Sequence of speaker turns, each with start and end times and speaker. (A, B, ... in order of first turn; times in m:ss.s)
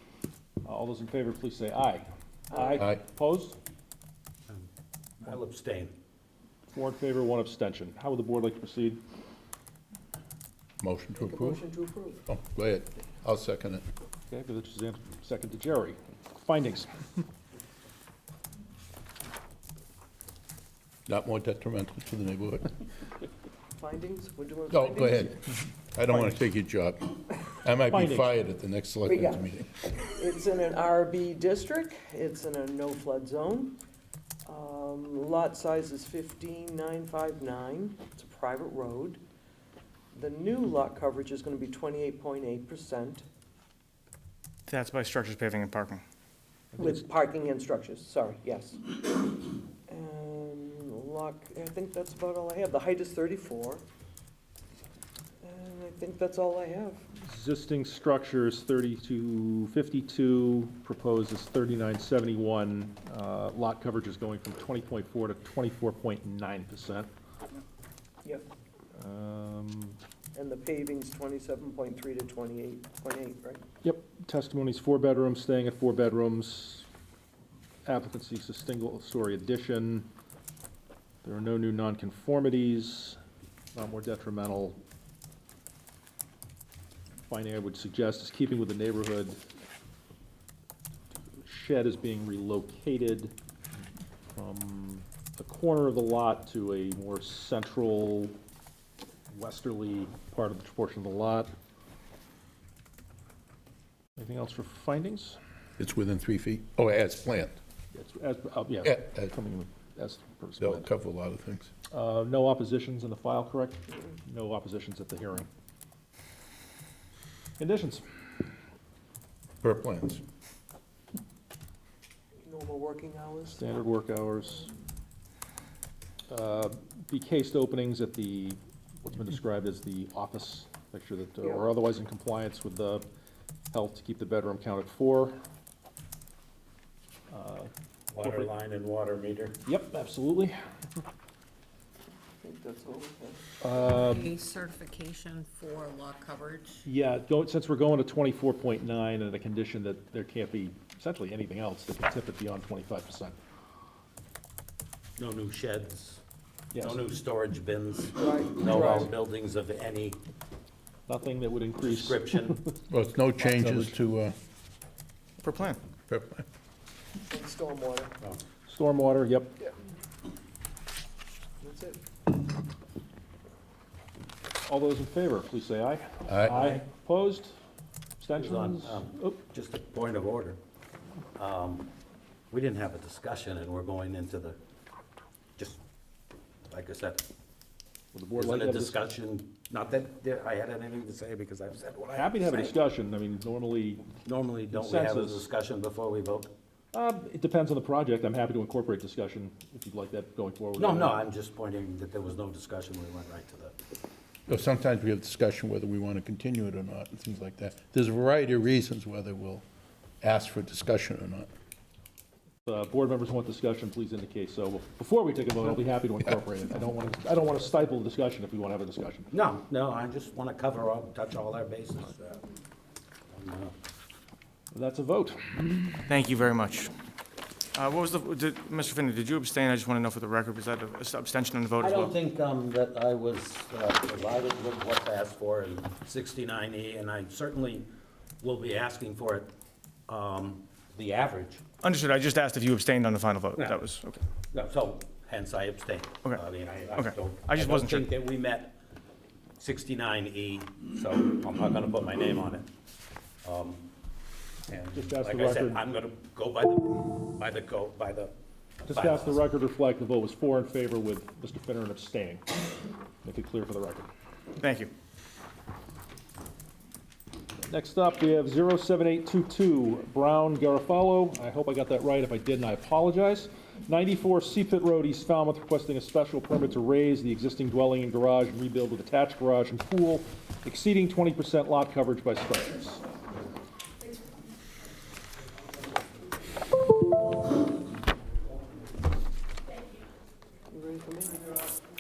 0:00.6-0:03.6 A
0:02.8-0:03.0 B
0:05.2-0:06.0 C
0:06.7-0:09.0 A
0:10.8-0:11.6 B
0:11.2-0:12.2 D
0:12.3-0:13.8 B
0:14.3-0:17.0 A
0:21.1-0:22.7 B
0:23.8-0:25.3 D
0:24.7-0:29.7 B
0:26.1-0:26.4 A
0:27.9-0:28.3 A
0:29.1-0:29.5 D
0:30.0-0:33.8 D
0:34.4-0:39.2 D
0:40.1-0:43.2 D
0:44.7-0:46.0 E
0:46.7-0:47.0 A
0:46.8-0:53.8 D
0:55.4-0:57.1 D
0:57.2-1:07.1 A
1:09.0-1:10.0 A
1:10.3-1:13.6 D
1:13.8-1:16.9 A
1:17.9-1:20.1 A
1:21.2-1:23.2 A
1:23.7-1:24.8 A
1:27.3-1:29.4 A
1:31.4-1:33.3 A
1:34.3-1:38.4 A
1:39.3-1:41.5 A
1:44.2-1:45.4 A
1:45.8-1:47.6 B
1:47.9-1:50.9 A
1:48.8-1:49.3 B
1:50.6-1:51.7 B
1:51.9-1:55.5 A
1:57.6-1:58.1 A
1:59.6-2:00.2 B
2:02.4-2:03.6 D
2:03.5-2:04.7 A
2:06.3-2:13.0 A
2:13.7-2:15.4 A
2:17.3-2:17.7 A
2:18.1-2:19.6 C
2:18.2-2:18.5 A
2:19.6-2:20.6 A
2:22.4-2:23.5 D
2:23.6-2:24.3 A
2:23.8-2:26.8 F
2:26.8-2:33.4 A
2:35.2-2:36.2 C
2:36.7-2:37.0 A
2:36.8-2:40.2 C
2:38.2-2:39.1 D
2:41.1-2:42.8 A
2:41.8-2:42.6 C
2:42.9-2:44.4 B
2:43.4-2:43.9 A
2:45.4-2:45.8 E
2:46.1-2:46.4 B
2:47.3-2:48.1 D
2:48.7-2:49.6 A
2:51.6-2:52.0 D
2:54.7-2:57.5 A
2:56.3-2:56.5 B
2:56.4-2:56.8 C
2:58.2-2:59.4 A
2:58.4-3:00.6 C
3:01.4-3:01.9 C
3:02.5-3:04.6 C
3:06.7-3:07.3 C
3:08.1-3:09.0 A
3:08.4-3:12.8 C
3:12.2-3:14.1 A
3:14.2-3:16.5 C
3:14.7-3:15.5 A
3:16.9-3:21.2 A
3:20.8-3:23.8 C
3:24.5-3:29.7 B
3:30.2-3:31.5 B
3:32.7-3:39.3 A
3:39.3-3:42.4 C
3:43.3-3:43.8 C
3:44.7-3:46.0 A
3:46.1-3:46.9 E
3:47.8-3:52.1 E
3:51.8-3:59.5 C
4:00.1-4:01.7 C
4:01.8-4:04.2 E
4:03.6-4:03.8 C
4:04.5-4:08.8 C
4:06.9-4:08.1 E
4:09.6-4:12.7 C
4:13.4-4:13.9 C
4:14.7-4:18.4 C
4:14.9-4:15.8 A
4:18.8-4:22.5 A
4:18.9-4:19.4 C
4:23.2-4:24.1 A
4:24.6-4:24.9 E
4:27.7-4:43.0 A
4:50.7-4:51.5 D